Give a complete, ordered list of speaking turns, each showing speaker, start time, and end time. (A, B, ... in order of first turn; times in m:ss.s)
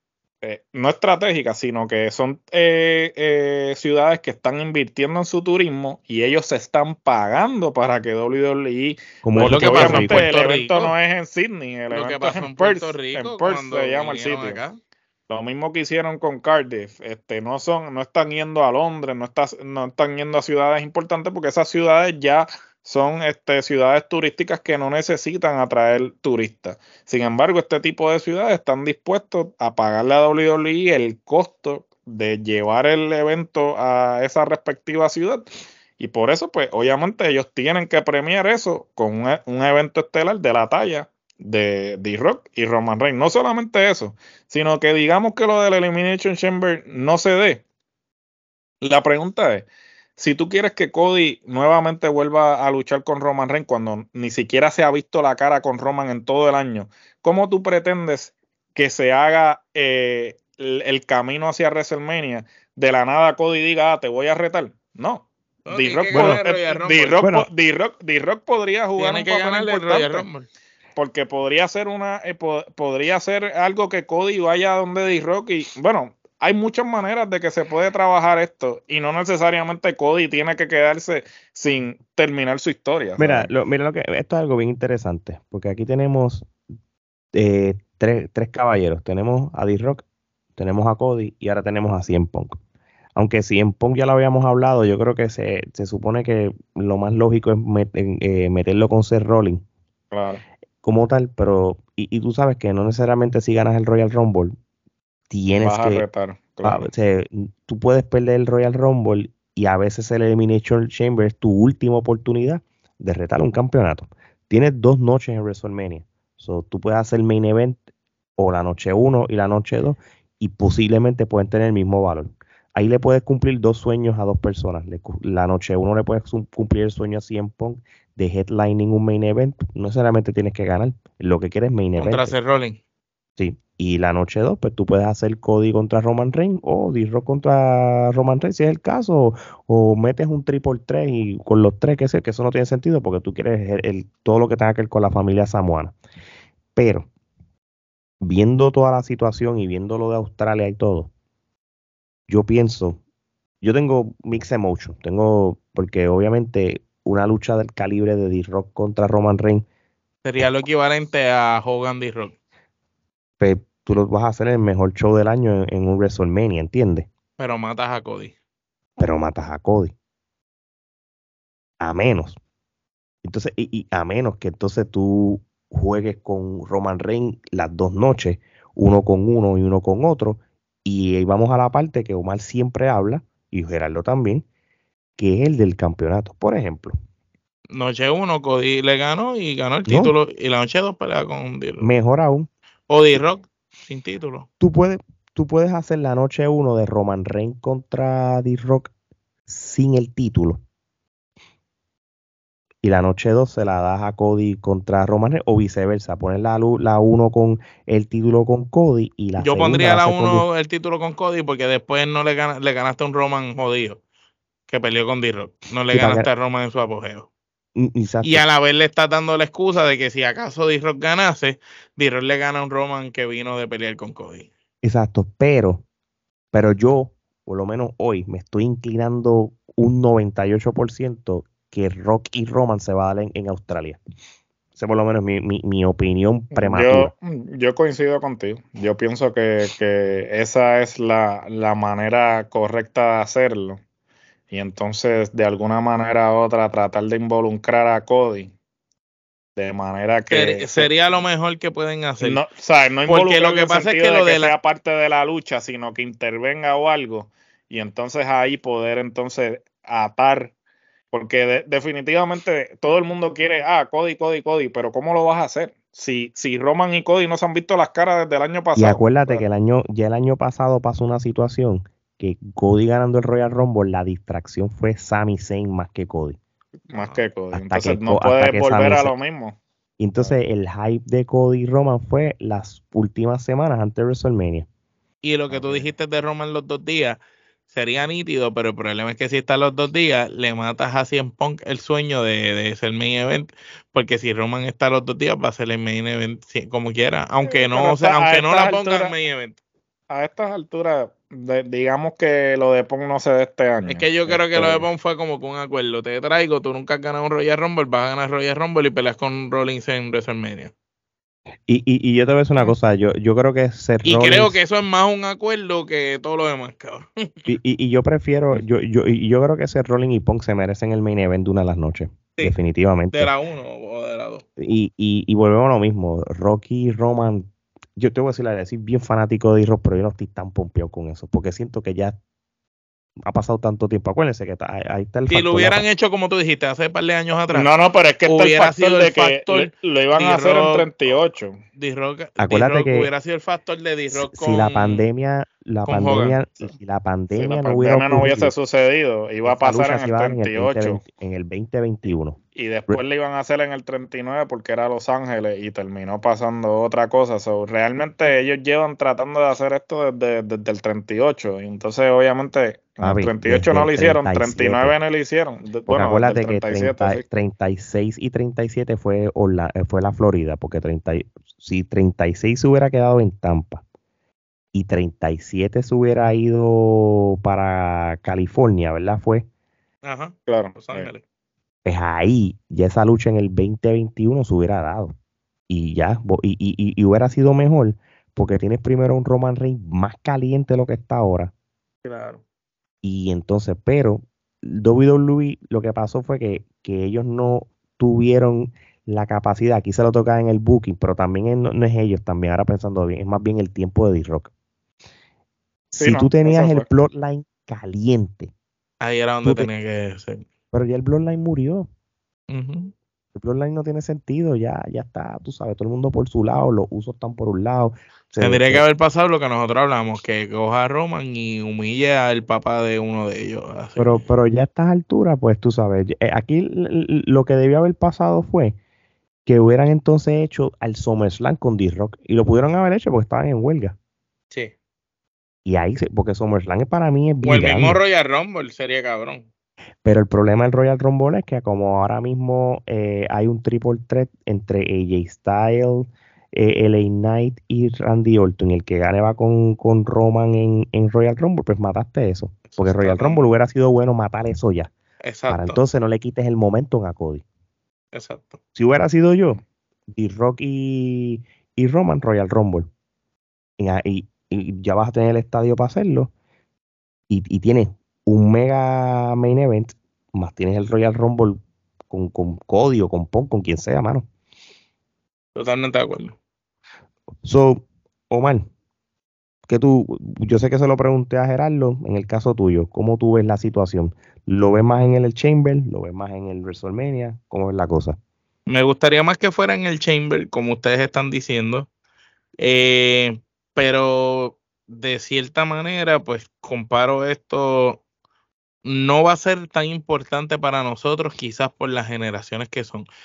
0:00.4-0:14.6 A
0:09.2-0:10.3 B
0:09.4-0:10.9 C
0:11.9-0:14.8 C
0:15.3-0:35.4 A
0:36.0-0:47.6 A
0:48.8-1:10.3 A
1:05.6-1:07.2 C
1:06.1-1:06.4 B
1:07.2-1:07.5 B
1:09.0-1:10.5 C
1:11.0-1:23.5 A
1:23.2-1:26.5 B
1:27.3-1:30.0 B
1:30.6-1:32.6 B
1:33.1-1:39.6 B
1:40.1-1:40.4 A
1:40.8-1:44.6 B
1:45.3-1:46.0 B
1:45.6-1:46.9 A
1:46.6-1:57.8 B
1:58.4-2:12.3 B
2:12.0-2:12.8 C
2:13.4-2:26.0 B
2:26.7-2:27.1 B
2:28.2-2:31.1 B
2:32.3-2:33.0 B
2:33.6-2:39.6 B
2:40.2-2:42.3 C
2:43.4-2:47.1 B
2:47.4-2:48.3 C
2:49.0-2:49.9 B
2:51.8-2:52.4 B
2:53.2-3:04.4 B
3:05.2-3:07.0 B
3:07.7-3:11.9 C
3:09.9-3:10.1 B
3:11.8-3:12.5 B
3:12.9-3:14.5 C
3:14.6-3:18.9 B
3:19.5-3:20.6 B
3:22.8-3:30.4 B
3:29.4-3:34.0 C
3:34.7-3:37.3 C
3:35.9-3:36.3 B
3:37.7-3:38.4 B
3:38.2-3:44.5 C
3:44.8-3:45.8 B
3:46.5-3:54.0 B
3:54.8-3:57.1 B
3:56.5-4:03.8 A
4:04.5-4:08.5 A
4:09.6-4:11.2 A
4:10.3-4:12.4 C
4:12.2-4:20.5 A
4:13.1-4:14.5 C
4:21.1-4:29.4 A
4:28.7-4:36.4 B
4:36.9-4:39.6 A
4:36.9-4:37.2 C
4:37.5-4:39.1 B
4:40.0-4:44.7 B
4:45.2-4:59.6 C
4:45.5-4:45.9 A
4:57.4-4:59.1 A
5:00.1-5:04.1 A
5:03.9-5:10.7 C
5:04.3-5:04.8 B
5:11.7-5:14.6 B
5:14.0-5:17.5 C
5:17.5-5:23.3 B
5:23.1-5:24.4 C
5:24.6-5:32.2 B
5:33.2-5:35.8 B
5:35.3-5:37.7 C
5:37.5-5:41.6 A
5:38.2-5:40.9 C
5:41.8-5:45.1 C
5:42.4-5:43.1 B
5:44.1-5:48.5 B
5:45.8-5:46.4 C
5:47.3-5:51.0 A
5:49.4-5:53.0 B
5:52.5-6:07.2 A
6:03.0-6:05.0 B
6:05.9-6:13.8 B
6:14.7-6:19.5 B
6:20.0-6:21.2 C
6:20.5-6:21.1 A
6:21.8-6:25.1 B
6:25.7-6:31.5 B
6:32.0-6:32.4 C
6:33.0-6:44.5 B
6:45.9-6:48.5 B
6:46.0-6:46.9 A
6:49.0-6:50.4 C
6:49.4-6:49.7 B
6:50.7-6:51.9 B
6:52.5-6:52.9 C
6:53.3-6:58.8 B
6:58.4-7:04.2 C
7:04.0-7:08.8 B
7:09.4-7:14.0 B
7:15.6-7:18.0 B
7:17.4-7:19.5 C
7:20.0-7:34.9 B
7:32.7-7:33.4 C
7:35.2-7:35.8 C
7:35.5-7:37.4 B
7:38.1-7:38.6 C
7:38.7-7:42.9 B
7:43.8-7:46.3 B
7:47.3-7:54.3 B
7:55.5-7:56.4 C
7:57.4-7:58.7 B
7:59.7-8:08.2 B
8:08.7-8:11.9 C
8:12.6-8:18.0 C
8:18.8-8:23.1 C